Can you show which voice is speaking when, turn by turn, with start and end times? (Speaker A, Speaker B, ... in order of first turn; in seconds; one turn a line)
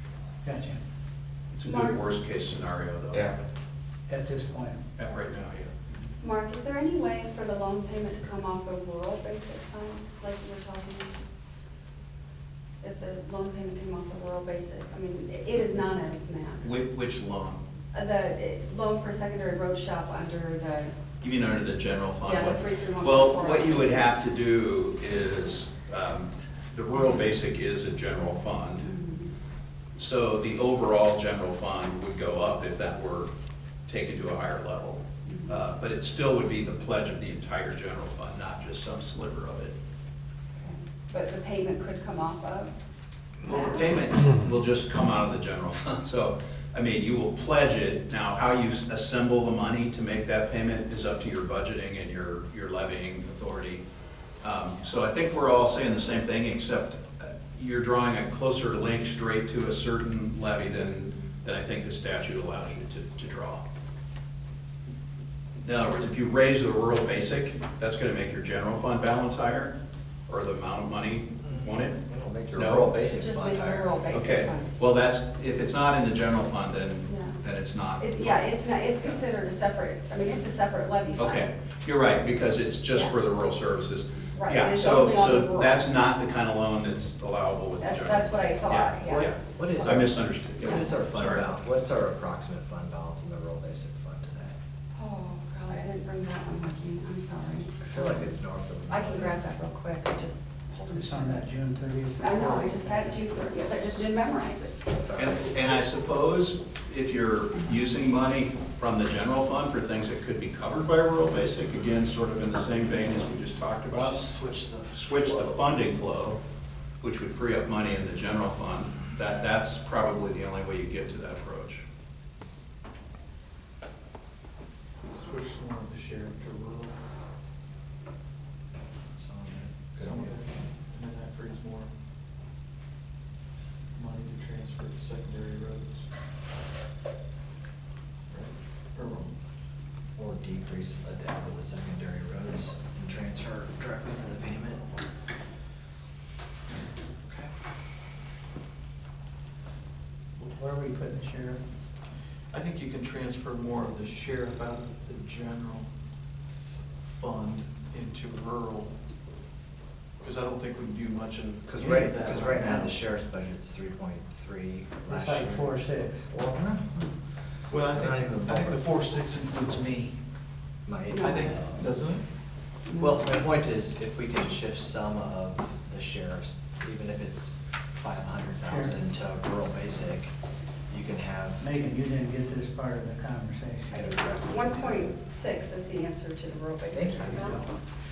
Speaker A: 0.4-0.8
Speaker B: 1.5-3.4
Speaker C: 1.6-2.0
Speaker A: 4.1-4.8
Speaker B: 5.0-5.8
Speaker C: 6.2-11.2
Speaker C: 12.8-16.8
Speaker B: 16.6-17.6
Speaker C: 17.9-20.9
Speaker B: 21.2-28.9
Speaker C: 22.2-24.1
Speaker C: 28.8-29.3
Speaker B: 30.0-33.3
Speaker B: 33.9-39.8
Speaker C: 35.2-35.6
Speaker C: 40.6-42.7
Speaker B: 43.4-53.8
Speaker C: 43.4-43.9
Speaker B: 54.4-63.6
Speaker B: 65.6-69.8
Speaker B: 70.3-72.0
Speaker D: 71.4-74.0
Speaker B: 72.5-73.0
Speaker C: 73.1-74.7
Speaker B: 74.1-79.2
Speaker C: 77.1-77.4
Speaker C: 78.0-81.5
Speaker B: 81.2-91.5
Speaker C: 84.3-85.8
Speaker C: 87.8-89.3
Speaker D: 89.1-94.5
Speaker C: 94.9-98.3
Speaker D: 97.8-99.5
Speaker C: 98.9-101.5
Speaker A: 100.9-103.2
Speaker C: 102.2-104.9
Speaker D: 104.9-105.5
Speaker B: 105.2-114.3
Speaker D: 113.9-115.6
Speaker B: 114.9-116.4
Speaker B: 117.0-121.8
Speaker E: 125.2-127.0
Speaker D: 129.2-130.4
Speaker E: 130.0-131.9
Speaker E: 133.9-136.1
Speaker E: 138.3-139.3
Speaker D: 140.2-144.9
Speaker A: 150.4-151.6
Speaker E: 152.5-155.9
Speaker E: 157.0-158.9
Speaker E: 160.2-163.0
Speaker D: 161.7-167.1
Speaker A: 165.1-166.3
Speaker E: 167.7-170.2
Speaker D: 167.8-168.8
Speaker D: 170.8-171.7
Speaker C: 171.1-171.5
Speaker E: 171.2-172.2
Speaker C: 172.9-173.2
Speaker D: 173.0-180.3
Speaker A: 178.7-179.0
Speaker D: 180.9-181.6
Speaker A: 181.6-184.0
Speaker C: 183.9-187.7
Speaker D: 183.9-185.2
Speaker D: 186.9-187.6
Speaker A: 187.3-187.6